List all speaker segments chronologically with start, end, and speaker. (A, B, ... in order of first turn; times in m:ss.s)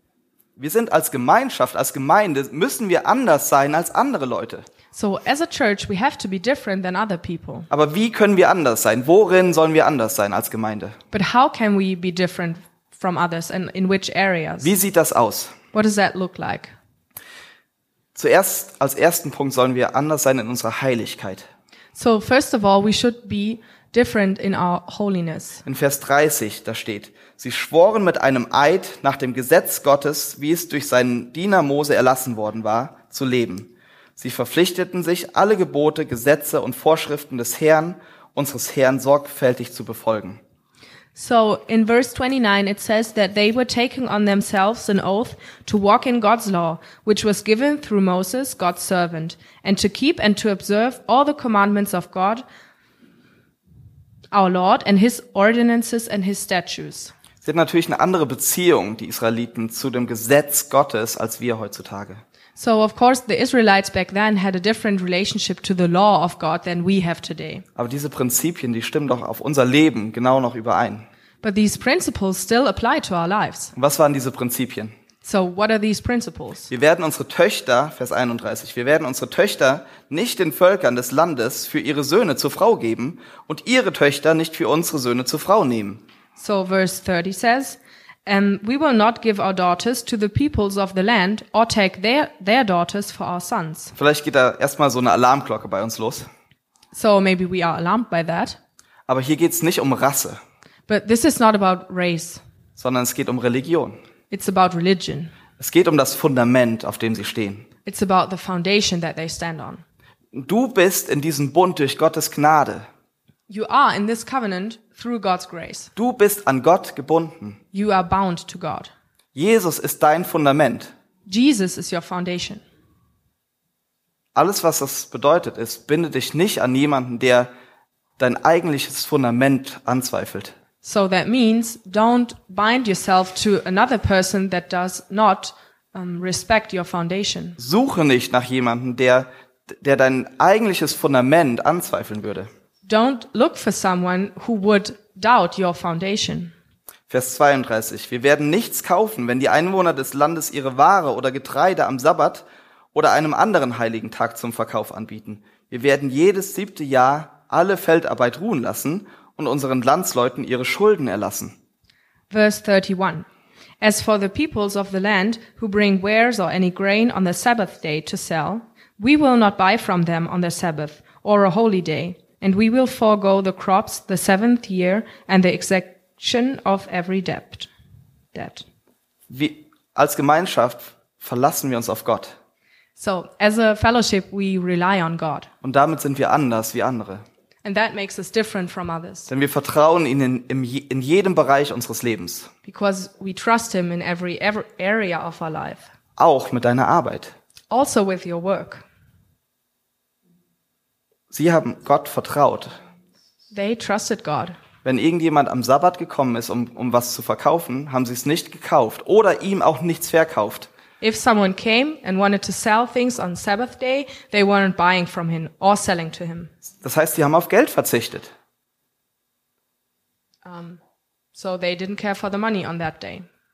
0:00.6-0:04.6 A
0:04.9-0:07.7 B
0:07.7-0:11.0 A
0:11.1-0:14.7 B
0:14.6-0:15.5 A
0:15.7-0:16.7 B
0:18.1-0:21.5 A
0:21.9-0:25.6 B
0:25.6-0:40.4 A
0:41.1-0:52.4 B
0:54.3-0:57.1 B
0:57.4-1:02.2 A
1:02.6-1:07.6 B
1:07.8-1:11.0 A
1:11.4-1:13.7 B
1:13.7-1:14.9 A
1:15.2-1:16.7 B
1:16.7-1:26.0 A
1:26.4-1:33.9 B
1:34.0-1:36.3 A
1:36.9-1:38.6 B
1:39.1-1:40.4 A
1:40.9-1:42.4 B
1:42.8-1:44.0 A
1:44.3-1:45.3 B
1:45.6-1:47.7 A
1:47.8-1:49.8 B
1:50.3-1:52.9 A
1:53.5-1:55.9 B
1:56.0-1:57.6 A
1:57.7-1:58.9 B
1:59.3-2:00.9 A
2:01.3-2:02.6 B
2:04.3-2:07.5 A
2:08.2-2:10.5 A
2:10.8-2:17.6 B
2:17.6-2:22.5 A
2:22.8-2:26.5 B
2:27.1-2:41.5 A
2:42.3-2:43.3 B
2:43.8-2:57.7 B
2:58.3-2:58.6 B
2:59.3-3:02.3 A
3:03.0-3:05.5 B
3:05.6-3:07.2 A
3:07.6-3:09.3 B
3:09.3-3:12.5 A
3:12.6-3:15.9 B
3:16.2-3:17.3 A
3:17.7-3:18.8 B
3:21.3-3:22.7 A
3:23.5-3:24.6 B
3:24.8-3:30.7 A
3:31.0-3:36.5 B
3:36.8-3:38.3 A
3:40.4-3:40.8 B
3:41.3-3:43.2 B